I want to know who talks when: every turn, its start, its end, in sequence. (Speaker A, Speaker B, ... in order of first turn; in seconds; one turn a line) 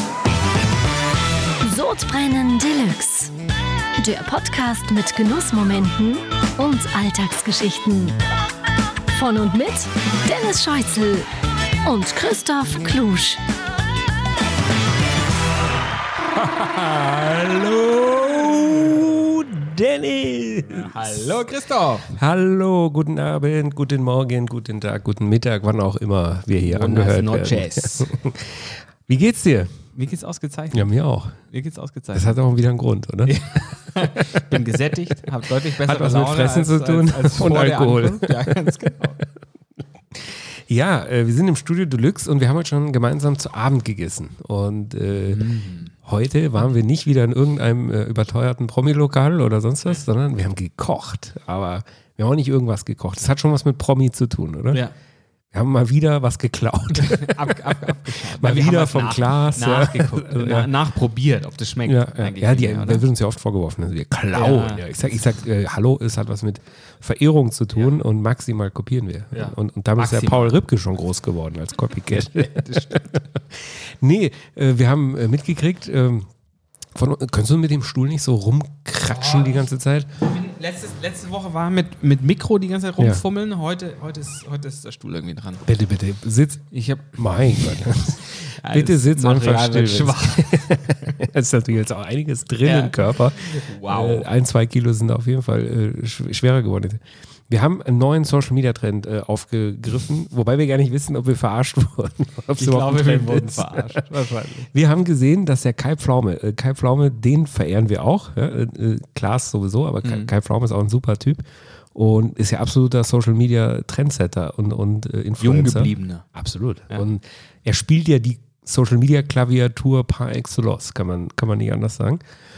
Speaker A: 1.6-3.3
Speaker A: 4.0-8.2
Speaker A: 9.1-11.3
Speaker A: 11.8-13.4
Speaker B: 16.6-21.2
Speaker C: 20.7-22.1
Speaker B: 22.1-29.8
Speaker C: 26.6-28.1
Speaker C: 29.9-30.9
Speaker B: 30.7-31.4
Speaker C: 31.4-32.4
Speaker B: 32.1-33.4
Speaker C: 33.2-39.2
Speaker B: 35.8-38.6
Speaker B: 40.1-45.5
Speaker C: 45.3-45.9
Speaker B: 46.0-54.8
Speaker B: 55.5-60.7
Speaker C: 56.9-63.0
Speaker B: 61.9-76.3
Speaker C: 64.3-64.8
Speaker C: 69.3-70.5
Speaker C: 72.3-73.0
Speaker B: 76.9-80.1
Speaker C: 79.0-79.6
Speaker C: 80.2-85.6
Speaker B: 85.6-104.0
Speaker C: 86.7-90.9
Speaker C: 92.6-94.3
Speaker C: 102.6-104.7
Speaker B: 104.7-122.2
Speaker C: 110.0-110.3
Speaker C: 115.4-116.2